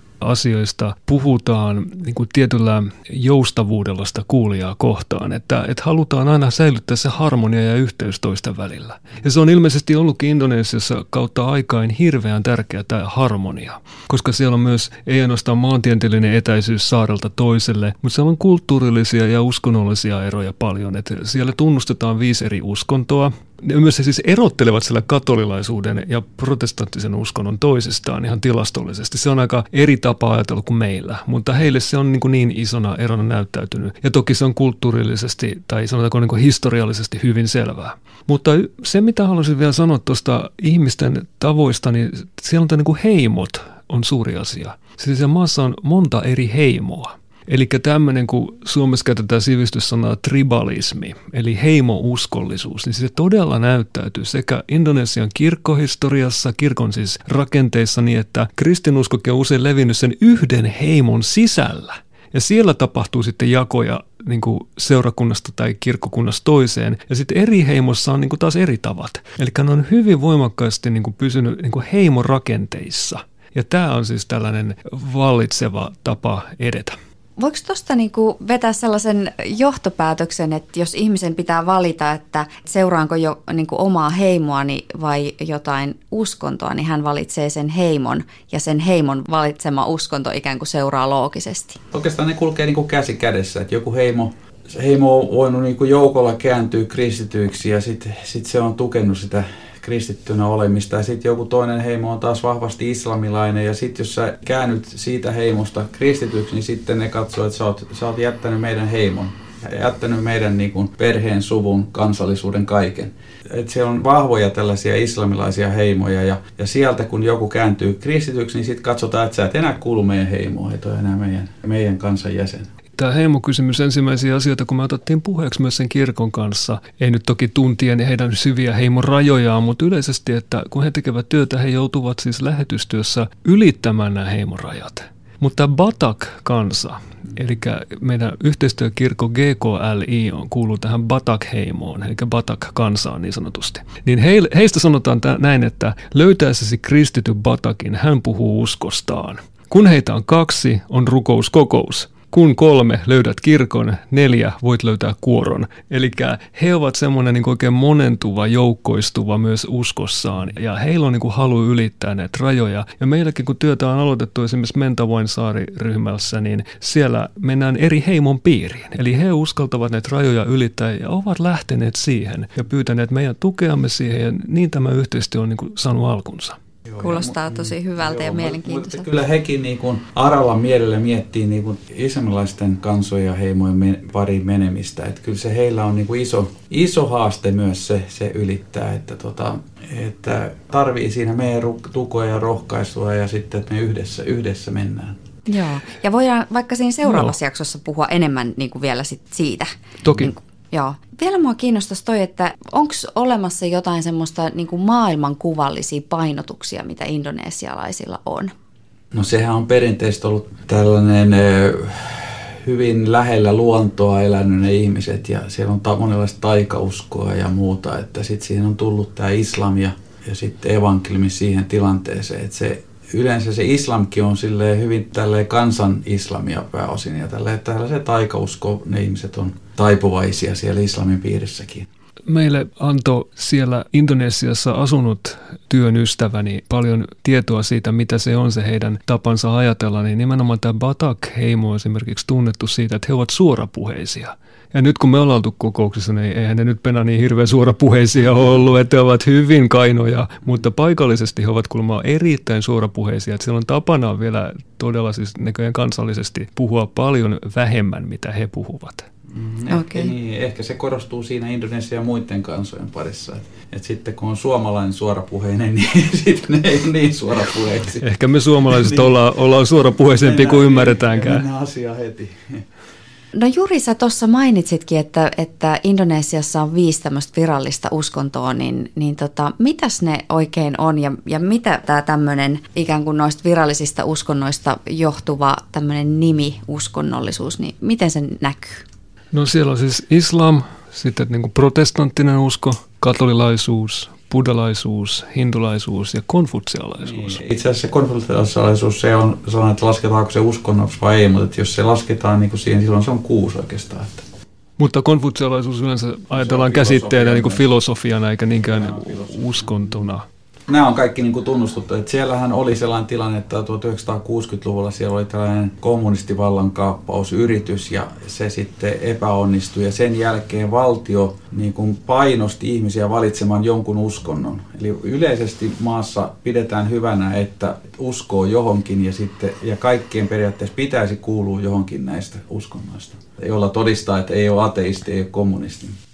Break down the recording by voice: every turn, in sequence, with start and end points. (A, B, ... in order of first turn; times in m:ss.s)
0:00.2-1:17.0 A
1:17.4-1:31.8 B
1:31.9-2:02.7 C
2:03.0-2:56.6 A
2:56.9-3:15.2 C
2:57.0-2:59.1 B
3:15.5-3:28.5 B
3:17.1-3:17.3 A
3:20.0-3:20.3 A
3:29.1-3:51.9 C
3:52.3-4:19.1 A
4:19.3-4:28.0 C
4:19.7-4:20.1 B
4:28.0-4:31.5 A
4:28.7-4:29.2 C
4:30.0-4:32.6 C
4:33.3-4:48.8 B
4:49.3-4:57.4 A
4:57.0-5:04.2 C
5:04.8-5:10.2 A
5:06.3-5:07.7 C
5:08.7-5:09.7 C
5:10.7-5:36.0 C